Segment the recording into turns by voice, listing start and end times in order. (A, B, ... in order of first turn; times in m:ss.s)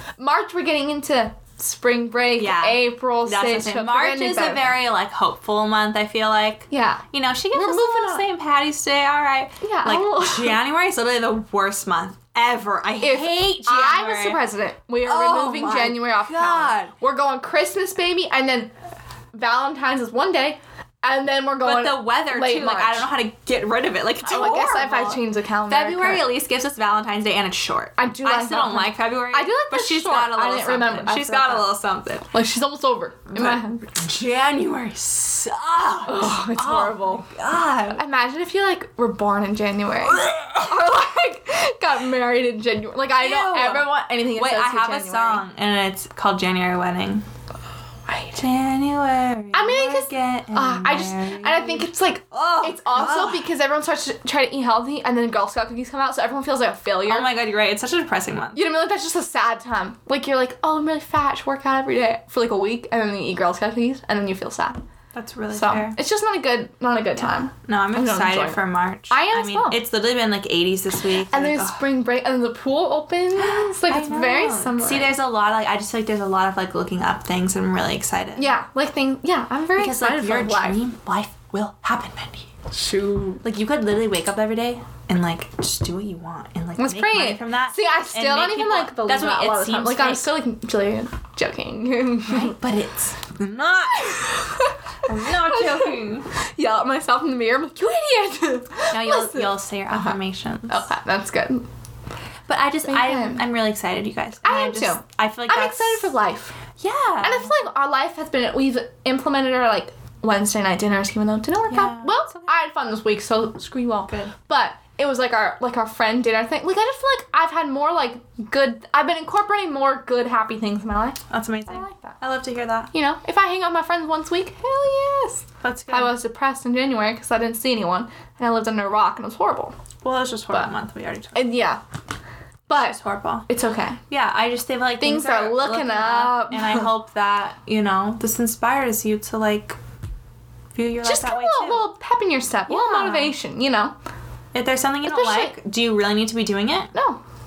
0:00.2-0:04.7 A
0:02.4-0:14.4 B
0:06.7-0:08.2 A
0:09.6-0:10.6 A
0:13.0-0:18.7 A
0:15.0-0:16.9 B
0:19.3-0:23.1 A
0:21.6-0:32.3 B
0:24.2-0:26.3 A
0:28.0-0:31.7 A
0:32.3-0:33.9 A
0:33.3-0:38.0 B
0:36.0-0:37.3 A
0:37.9-0:45.4 A
0:40.1-0:40.8 B
0:43.2-0:47.2 B
0:48.1-0:48.4 A
0:48.3-0:53.4 B
0:49.5-0:57.3 A
0:57.0-0:58.6 B
0:58.5-1:04.8 A
1:05.1-1:06.0 B
1:05.5-1:09.8 A
1:07.2-1:11.8 B
1:11.3-1:15.2 A
1:13.4-1:18.5 B
1:18.4-1:20.8 A
1:19.7-1:22.5 B
1:22.7-1:23.4 A
1:23.4-1:30.3 B
1:26.8-1:32.6 A
1:32.3-1:34.3 B
1:34.0-1:40.2 A
1:35.0-1:36.3 B
1:38.9-1:40.9 B
1:40.7-1:41.7 A
1:42.5-1:46.1 B
1:42.9-1:43.4 A
1:44.4-1:46.6 A
1:46.8-1:47.5 B
1:47.2-2:02.2 A
1:51.7-1:52.5 B
1:54.1-1:54.3 B
2:01.3-2:02.9 B
2:02.9-2:09.7 A
2:05.6-2:06.1 B
2:10.0-2:11.5 B
2:11.3-2:11.8 A
2:12.7-2:13.0 A
2:12.7-2:13.5 B
2:13.5-2:14.0 A
2:14.1-2:19.8 B
2:15.0-2:16.9 A
2:20.7-2:21.9 B
2:21.0-2:23.9 A
2:22.7-2:23.3 B
2:24.5-2:26.9 B
2:25.0-2:25.6 A
2:26.9-2:27.2 A